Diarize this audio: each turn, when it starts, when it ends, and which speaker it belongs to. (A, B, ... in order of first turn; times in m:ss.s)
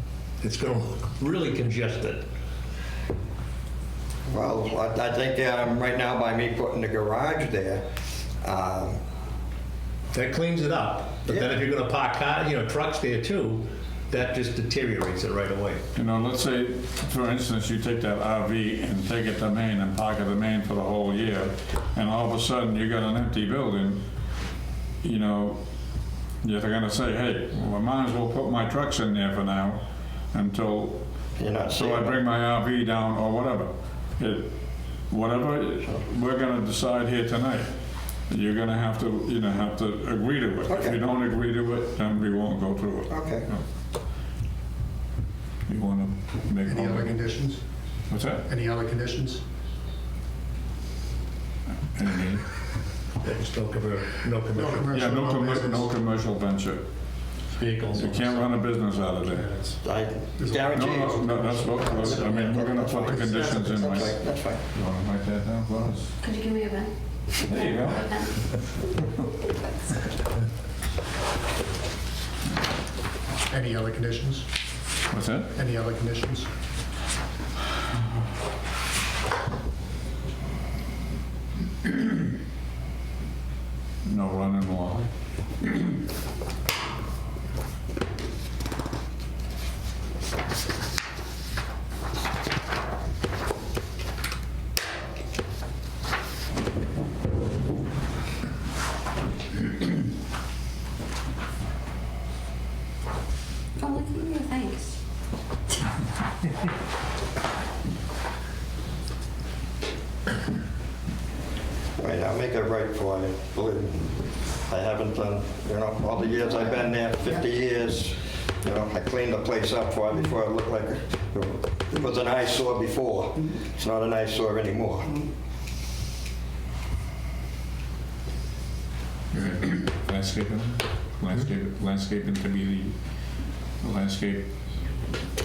0:00.4-0:02.3 A
0:04.3-0:07.9 B
0:08.4-0:09.0 B
0:10.1-0:15.8 A
0:11.3-0:11.5 B
0:16.0-0:24.0 C
0:25.0-0:25.6 C
0:26.4-0:31.1 C
0:31.4-0:32.2 B
0:31.8-0:34.6 C
0:35.1-0:37.7 C
0:38.3-0:43.6 C
0:40.7-0:41.0 B
0:43.1-0:43.5 B
0:45.7-0:47.2 C
0:46.6-0:47.6 D
0:48.1-0:48.4 C
0:48.4-0:49.4 D
0:51.8-0:52.5 C
0:53.2-0:55.0 A
0:54.5-0:55.9 D
0:54.9-0:56.9 C
0:57.6-0:58.5 A
0:57.9-0:59.5 C
0:59.3-0:59.8 D
0:59.8-1:04.6 B
1:00.4-1:01.3 D
1:00.7-1:06.2 C
1:01.8-1:02.4 D
1:06.2-1:08.6 E
1:07.4-1:08.0 C
1:13.5-1:14.5 D
1:15.1-1:15.5 C
1:15.5-1:16.5 D
1:24.0-1:25.1 C
1:43.8-1:45.0 E
1:52.0-2:05.2 B
2:09.3-2:12.9 C
2:13.8-2:14.5 C